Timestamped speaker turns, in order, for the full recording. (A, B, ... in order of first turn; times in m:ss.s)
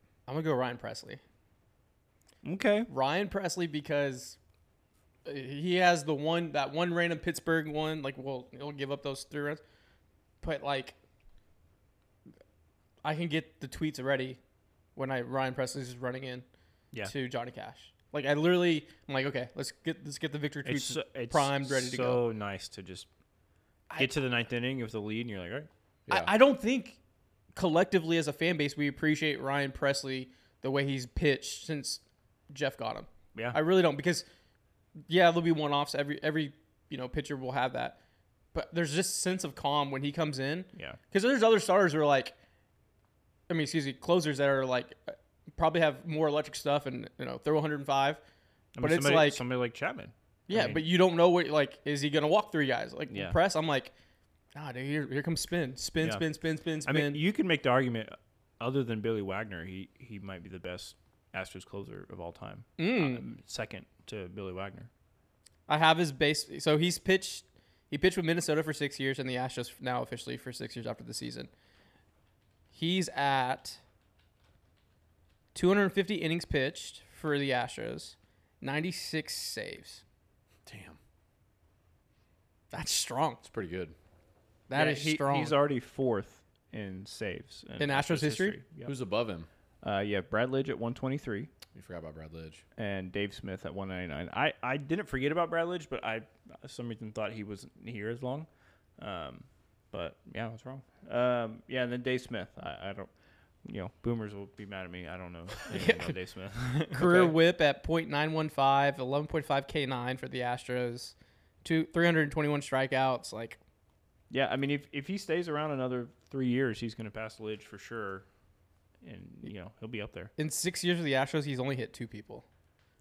0:00.3-0:01.2 A
0:02.4-0:02.9 B
0:02.9-0:04.4 A
0:05.2-0:09.6 A
0:10.4-0:11.0 A
0:13.0-0:14.4 A
0:15.0-0:16.4 A
0:17.0-0:22.2 A
0:20.6-0:23.1 B
0:24.0-0:25.7 B
0:26.1-0:27.0 A
0:27.6-0:34.3 A
0:35.1-0:38.0 A
0:38.5-0:42.4 A
0:43.5-0:48.2 A
0:48.8-0:50.9 B
0:48.8-0:49.4 A
0:50.5-0:53.9 A
0:53.1-0:53.4 B
0:54.6-0:57.2 A
0:56.9-1:04.9 B
1:02.8-1:03.3 A
1:05.7-1:11.5 A
1:12.7-1:13.8 A
1:15.6-1:20.0 A
1:20.6-1:21.0 C
1:22.7-1:23.4 A
1:23.4-1:23.9 C
1:24.7-1:25.5 A
1:24.7-1:28.9 B
1:27.8-1:28.6 A
1:28.8-1:29.5 C
1:29.8-1:31.5 B
1:31.7-1:32.6 C
1:32.8-1:43.1 B
1:43.6-1:47.4 B
1:45.7-1:46.1 A
1:46.9-1:53.6 A
1:54.3-1:58.2 B
1:59.0-2:00.3 B
2:00.4-2:02.4 A